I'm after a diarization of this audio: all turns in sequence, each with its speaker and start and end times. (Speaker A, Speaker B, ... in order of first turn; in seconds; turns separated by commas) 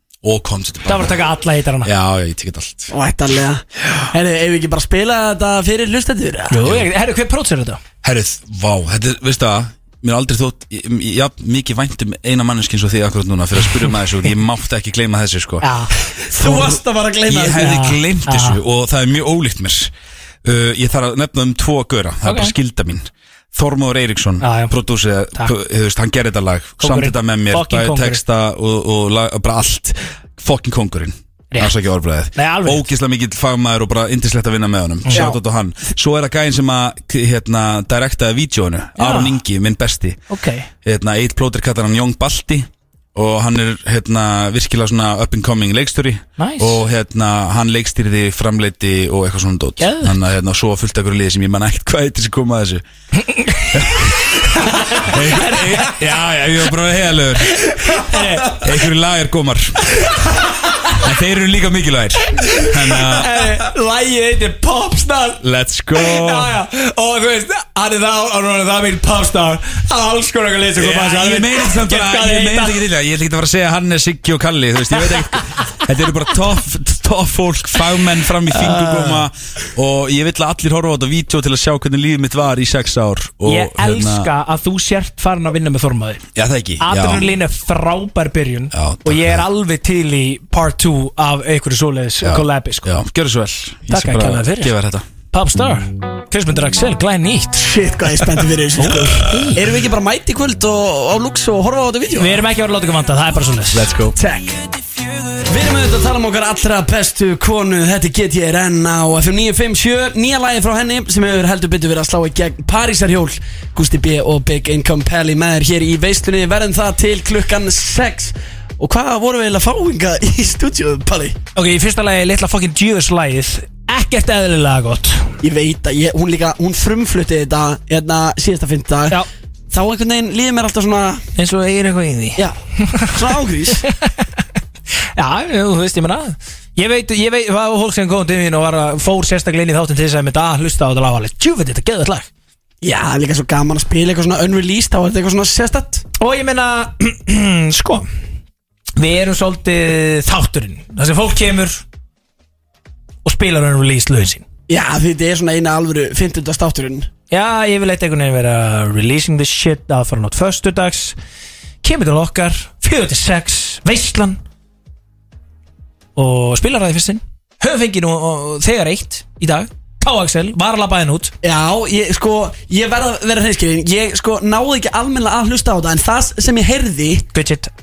Speaker A: 0.2-1.2, Speaker B: 0.9-1.9, Speaker A: 1.8-2.9, Speaker C: 2.9-6.6, Speaker B: 6.5-7.8, Speaker A: 8.0-15.7, Speaker B: 15.6-16.7, Speaker C: 16.3-17.8, Speaker A: 17.3-19.9, Speaker B: 17.6-18.6, Speaker A: 20.4-40.2, Speaker B: 22.2-22.5, Speaker B: 24.4-24.7, Speaker B: 26.8-28.2, Speaker B: 32.3-32.9, Speaker B: 35.1-35.3, Speaker C: 35.1-35.4, Speaker B: 39.0-39.4, Speaker B: 40.3-40.7, Speaker A: 40.8-52.8, Speaker B: 46.4-46.8, Speaker B: 49.8-50.1, Speaker B: 53.2-56.0, Speaker A: 53.7-59.8, Speaker B: 57.5-58.8, Speaker B: 59.9-61.0, Speaker A: 60.9-63.5, Speaker B: 62.4-65.4, Speaker A: 65.4-66.5, Speaker B: 65.9-72.8, Speaker A: 70.8-84.3, Speaker B: 75.0-75.4, Speaker B: 78.5-79.3, Speaker B: 83.5-86.2, Speaker A: 86.4-87.3, Speaker B: 86.8-92.9, Speaker A: 88.7-89.4, Speaker A: 92.2-95.1, Speaker B: 93.9-94.7, Speaker B: 95.3-97.7, Speaker C: 97.6-102.4, Speaker B: 98.8-99.6, Speaker B: 102.1-103.9, Speaker A: 103.7-104.1, Speaker C: 104.1-104.6, Speaker C: 105.5-121.4, Speaker B: 121.6-125.4, Speaker C: 125.4-131.2, Speaker B: 131.4-133.9, Speaker C: 133.1-133.8, Speaker B: 135.2-142.3, Speaker C: 142.8-146.0, Speaker B: 146.2-148.1, Speaker B: 149.0-151.8, Speaker B: 153.2-154.4, Speaker C: 154.7-157.1, Speaker B: 157.3-161.2, Speaker B: 161.8-164.4, Speaker B: 166.2-171.3, Speaker C: 171.4-177.3, Speaker B: 177.3-177.7